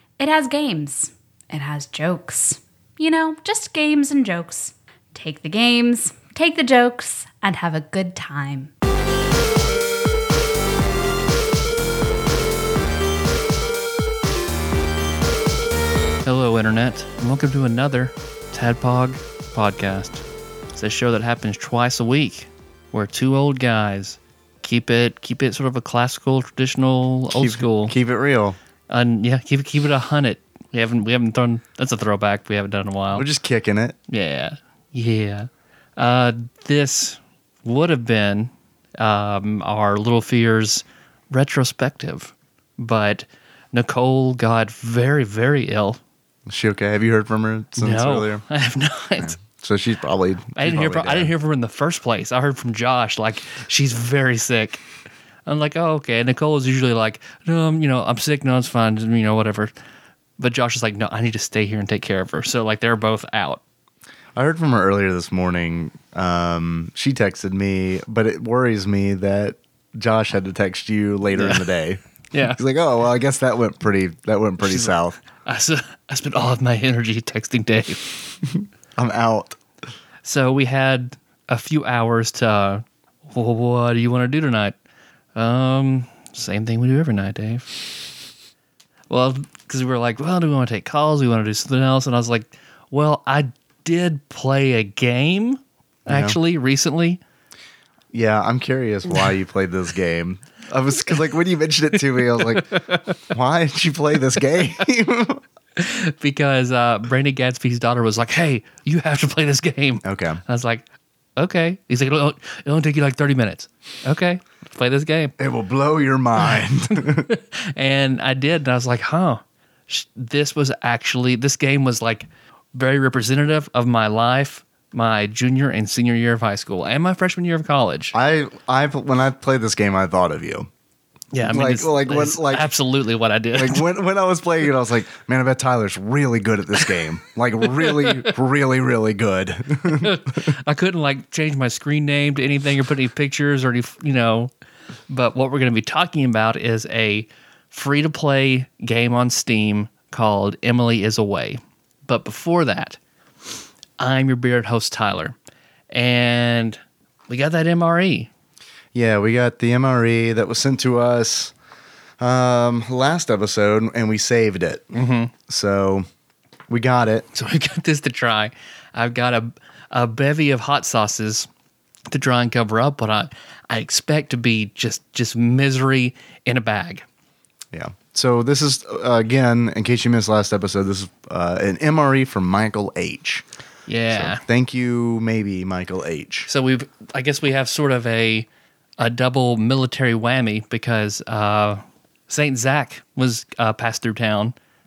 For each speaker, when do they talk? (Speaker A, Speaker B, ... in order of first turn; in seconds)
Speaker A: 0.2-8.7
Speaker B: 16.2-27.9, 28.9-33.3, 34.1-46.0, 47.8-49.3, 50.5-54.8, 55.5-59.7, 60.4-63.6, 71.3-71.7, 72.3-72.6, 74.6-74.9, 75.4-78.1, 80.2-84.7, 85.3-87.8, 89.1-97.2, 102.4-103.1, 105.8-110.8, 111.4-115.3, 117.0-128.1, 131.3-133.8, 137.9-138.2, 139.9-144.5, 145.1-153.0, 154.0-155.3, 155.9-158.3, 164.9-165.3, 167.3-171.5, 172.1-177.0, 183.9-184.4, 186.5-188.5, 189.0-194.5
Speaker C: 27.3-28.6, 33.1-34.0, 46.5-48.4, 49.2-51.3, 64.3-72.0, 72.5-75.2, 78.5-79.6, 96.1-96.4, 98.1-102.8, 103.3-105.4, 110.0-110.4, 115.4-117.3, 128.1-130.7, 131.4-132.7, 133.5-140.4, 158.9-161.5, 162.2-164.9, 165.5-166.1, 166.7-167.2, 177.7-183.4, 184.1-186.5